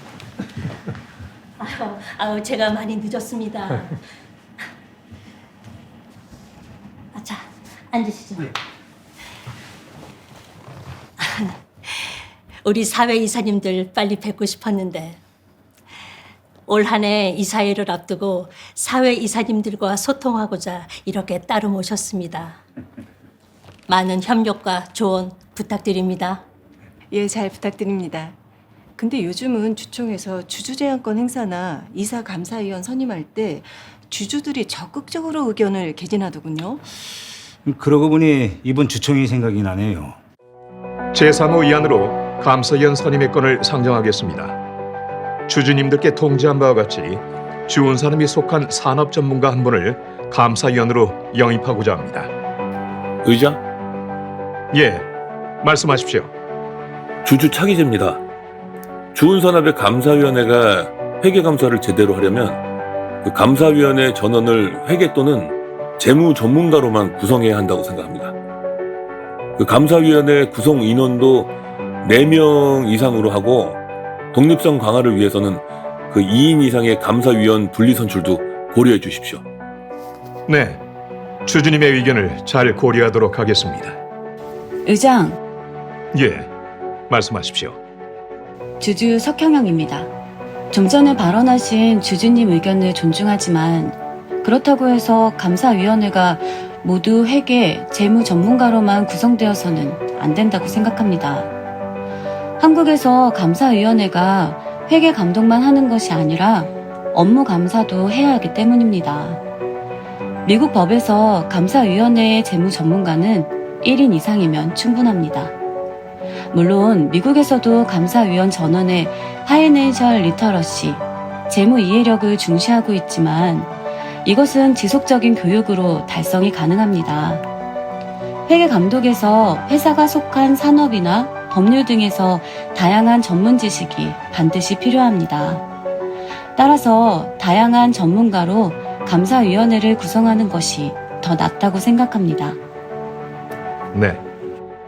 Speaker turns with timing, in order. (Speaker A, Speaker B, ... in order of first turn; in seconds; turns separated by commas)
Speaker A: 1.6-3.9, Speaker A: 7.1-8.5, Speaker A: 12.6-15.2, Speaker A: 16.7-22.6, Speaker A: 23.9-26.4, Speaker B: 27.1-28.3, Speaker B: 29.0-36.8, Speaker C: 37.6-40.2, Speaker D: 41.1-44.5, Speaker D: 45.5-52.3, Speaker E: 53.3-53.5, Speaker D: 54.7-55.1, Speaker D: 55.6-56.3, Speaker E: 57.2-58.2, Speaker E: 59.1-62.6, Speaker E: 63.2-68.3, Speaker E: 69.6-71.5, Speaker E: 72.0-73.8, Speaker E: 74.3-75.6, Speaker E: 76.1-79.4, Speaker D: 80.5-80.8, Speaker D: 81.4-84.0, Speaker F: 84.8-85.4, Speaker D: 86.1-86.5, Speaker D: 87.1-87.8, Speaker F: 88.8-90.1, Speaker F: 90.7-101.5, Speaker F: 102.6-109.4, Speaker F: 110.4-115.5, Speaker F: 116.5-123.7, Speaker F: 124.2-127.4, Speaker F: 128.5-135.6, Speaker F: 136.6-142.6, Speaker D: 143.9-144.2